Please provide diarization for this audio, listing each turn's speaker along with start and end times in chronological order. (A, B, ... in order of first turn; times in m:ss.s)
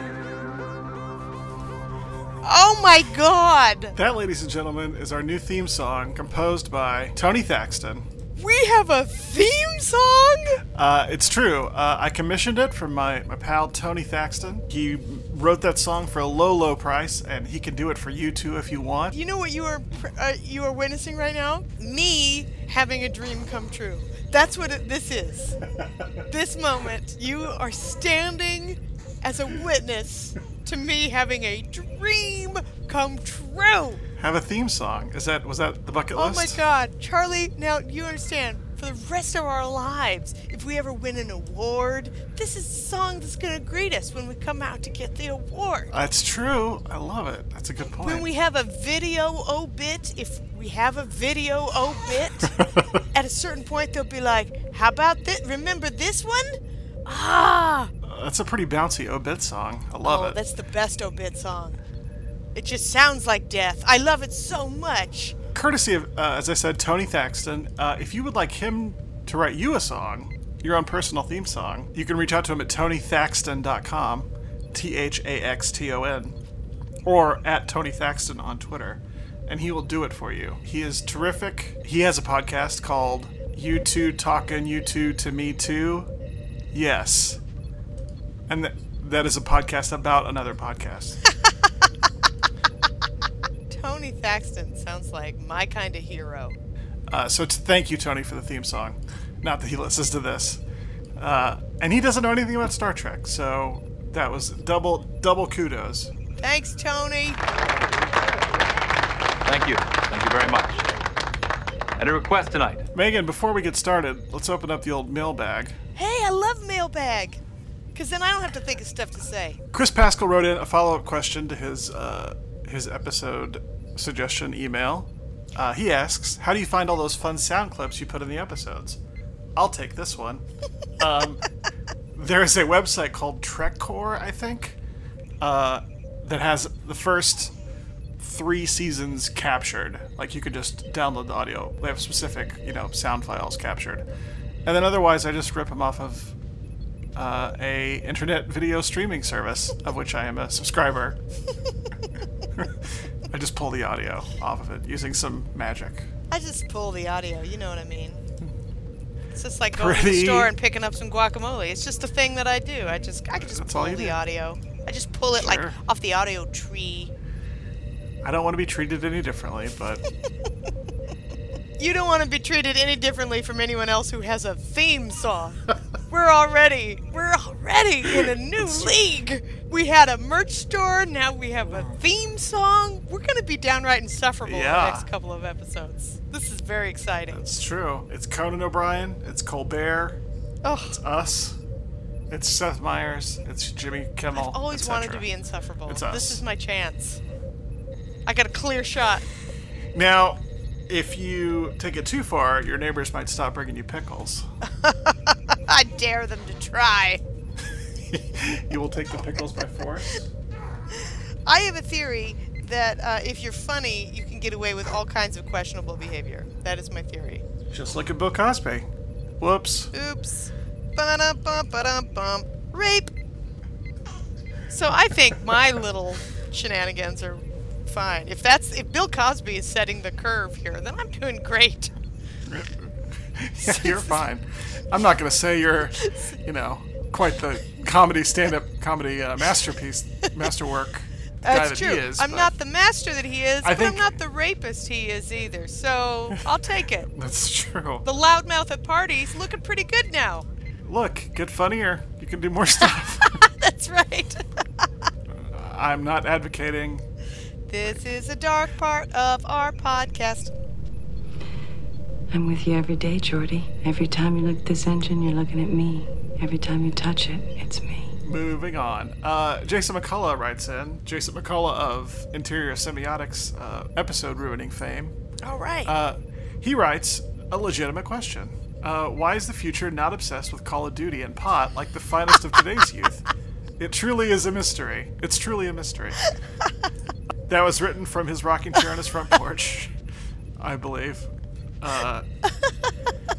0:02.4-0:04.0 A
0:03.9-0:08.1 B
0:08.4-0:10.6 A
0:10.7-0:19.2 B
0:19.1-0:25.6 A
0:26.3-0:34.0 A
0:34.2-0:36.6 B
0:36.1-0:45.9 A
0:45.9-0:48.3 B
0:48.0-0:52.6 A
0:53.1-0:57.9 A
0:58.0-1:00.4 B
1:00.0-1:01.8 A
1:02.5-1:05.3 A
1:05.5-1:16.4 B
1:17.0-1:26.1 B
1:26.7-1:27.4 B
1:28.5-1:31.2 B
1:33.7-1:36.6 A
1:37.1-1:40.6 B
1:41.2-1:46.1 B
1:46.4-1:47.4 A
1:49.4-1:50.9 C
1:52.0-1:52.8 C
1:52.9-1:55.8 B
1:56.0-1:57.4 A
1:57.9-1:59.6 A
1:59.7-2:09.0 B
2:09.6-2:10.4 B
2:11.0-2:11.4 B
2:12.1-2:14.8 B
2:15.4-2:17.5 B
2:18.2-2:24.0 B
2:24.6-2:26.4 B
2:27.2-2:31.2 B
2:33.3-2:36.1 B
2:36.3-2:38.2 A
2:39.3-2:47.1 A
2:39.7-2:40.5 B
2:43.4-2:44.2 B
2:45.3-2:45.8 B
2:48.2-2:50.0 B
2:51.8-3:07.4 A
2:58.6-2:58.9 B
3:01.7-3:02.0 B
3:04.4-3:05.0 B
3:07.3-3:10.2 B
3:10.6-3:11.0 A
3:10.9-3:11.6 B
3:12.3-3:15.2 B
3:14.3-3:17.2 A
3:15.9-3:16.4 B
3:18.2-3:19.2 A
3:19.9-3:24.5 B
3:24.6-3:27.2 A
3:28.1-3:30.3 B
3:31.4-3:37.4 A
3:37.7-3:38.9 B
3:39.4-3:39.9 B
3:39.9-3:43.1 A
3:44.7-3:51.9 A
3:52.5-4:02.5 B
3:53.6-3:54.1 A
3:56.0-3:56.3 A
4:01.4-4:07.1 A
4:03.6-4:04.1 B
4:07.1-4:08.0 B
4:08.0-4:10.5 A
4:10.8-4:13.4 B
4:13.2-4:14.8 A
4:15.3-4:17.0 B
4:17.7-4:20.5 A
4:22.3-4:28.2 D
4:28.2-4:35.1 B
4:35.4-4:35.9 A
4:35.8-4:43.2 B
4:43.8-4:46.2 B
4:47.5-4:49.9 B
4:50.6-4:51.3 B
4:51.8-4:52.2 B